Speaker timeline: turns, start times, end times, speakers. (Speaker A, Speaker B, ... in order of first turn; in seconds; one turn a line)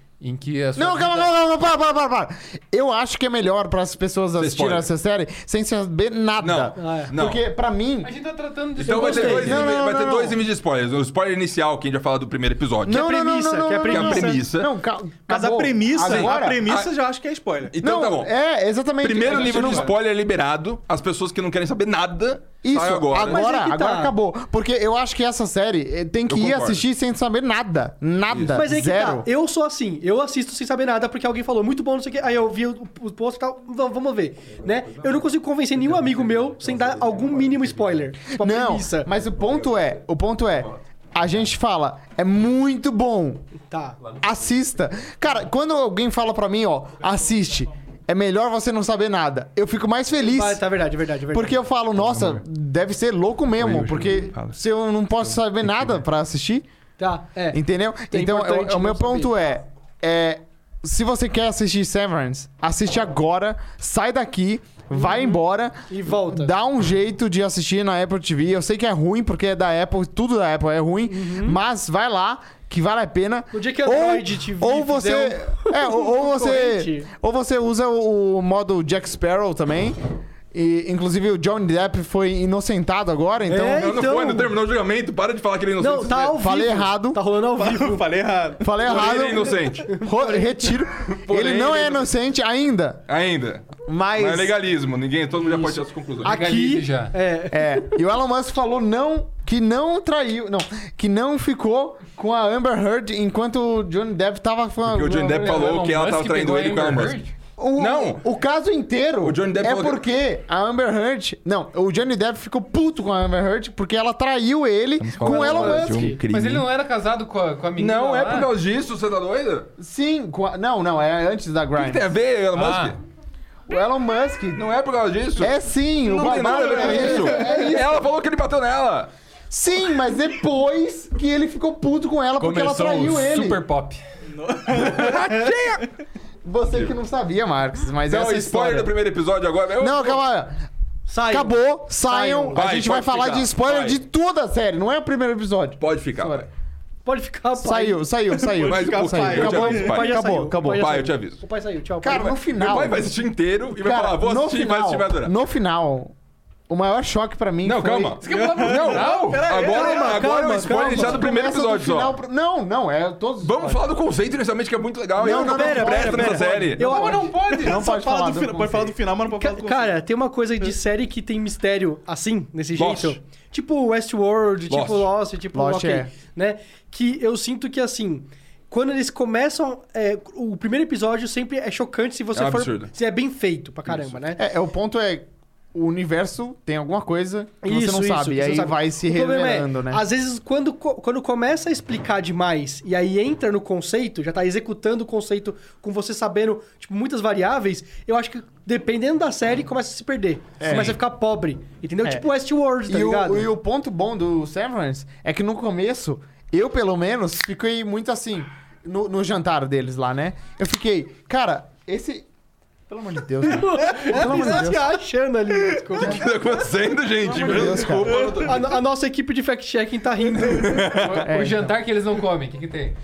Speaker A: 0.2-1.3
Speaker B: 0.8-8.1
Speaker C: 4.4-4.9
Speaker C: 6.4-7.4
Speaker D: 6.8-7.1
Speaker A: 8.0-9.7
Speaker C: 8.8-13.0
Speaker D: 8.9-9.6
Speaker B: 9.3-10.4
Speaker B: 12.8-16.6
Speaker D: 12.9-14.4
Speaker C: 13.9-14.7
Speaker E: 15.3-17.7
Speaker C: 16.0-16.9
Speaker C: 17.7-18.3
Speaker B: 17.8-19.9
Speaker C: 19.0-23.4
Speaker B: 22.6-29.3
Speaker D: 23.2-24.1
Speaker C: 26.3-26.8
Speaker C: 28.3-28.7
Speaker D: 28.5-39.1
Speaker A: 35.8-38.1
Speaker B: 38.3-43.4
Speaker D: 43.7-44.0
Speaker B: 44.2-50.6
Speaker D: 50.2-51.6
Speaker B: 51.3-56.6
Speaker C: 52.0-52.4
Speaker C: 53.6-54.6
Speaker C: 55.2-56.0
Speaker D: 57.0-59.4
Speaker B: 57.5-80.0
Speaker D: 65.0-66.5
Speaker D: 71.1-71.6
Speaker D: 73.5-77.1
Speaker B: 80.5-83.9
Speaker D: 83.5-84.5
Speaker C: 83.7-86.4
Speaker D: 85.8-88.1
Speaker B: 86.4-87.2
Speaker E: 87.6-88.9
Speaker B: 88.6-93.0
Speaker C: 88.8-90.0
Speaker D: 89.4-90.7
Speaker C: 91.1-92.1
Speaker C: 93.1-96.3
Speaker B: 93.9-94.5
Speaker A: 96.2-97.1
Speaker D: 96.2-97.9
Speaker B: 97.5-105.5
Speaker C: 104.8-107.2
Speaker A: 105.3-107.3
Speaker B: 107.6-116.2
Speaker C: 107.8-108.2
Speaker C: 109.2-110.0
Speaker C: 115.0-116.7
Speaker D: 115.2-116.2
Speaker A: 116.3-118.5
Speaker C: 117.8-119.7
Speaker B: 119.8-122.1
Speaker C: 121.8-123.0
Speaker A: 122.5-123.0
Speaker B: 123.7-124.7
Speaker C: 124.5-129.1
Speaker B: 125.4-128.0
Speaker E: 126.5-126.9
Speaker B: 129.5-133.6
Speaker A: 132.4-134.0
Speaker E: 134.3-135.7
Speaker C: 134.7-135.9
Speaker B: 136.4-138.9
Speaker C: 136.7-136.9
Speaker C: 138.1-140.2
Speaker B: 139.8-140.6
Speaker D: 141.1-142.6
Speaker B: 141.3-146.5
Speaker C: 142.5-144.0
Speaker C: 145.8-146.5
Speaker D: 147.1-148.0
Speaker B: 147.6-150.9
Speaker E: 148.3-149.9
Speaker C: 148.6-151.4
Speaker D: 149.4-152.3
Speaker B: 152.0-153.1
Speaker C: 152.1-155.3
Speaker B: 153.8-156.1
Speaker B: 156.7-158.2
Speaker C: 157.6-162.2
Speaker A: 158.2-159.5
Speaker E: 158.2-160.4
Speaker D: 159.6-161.3
Speaker B: 160.7-163.8
Speaker C: 163.4-167.1
Speaker D: 165.2-167.6
Speaker B: 165.2-168.9
Speaker A: 166.8-167.9
Speaker E: 167.6-170.0
Speaker D: 169.4-184.4
Speaker C: 172.8-173.2
Speaker C: 174.7-175.1
Speaker B: 175.5-176.1
Speaker C: 182.3-182.9
Speaker C: 183.9-184.2
Speaker B: 184.4-190.0
Speaker D: 187.6-203.5
Speaker B: 200.6-201.0
Speaker B: 202.9-212.3
Speaker B: 212.9-215.0
Speaker D: 213.5-216.3
Speaker C: 215.9-218.7
Speaker E: 217.2-218.7
Speaker B: 217.3-218.2
Speaker D: 218.1-221.0
Speaker C: 220.4-221.2
Speaker A: 220.9-223.0
Speaker B: 221.2-221.8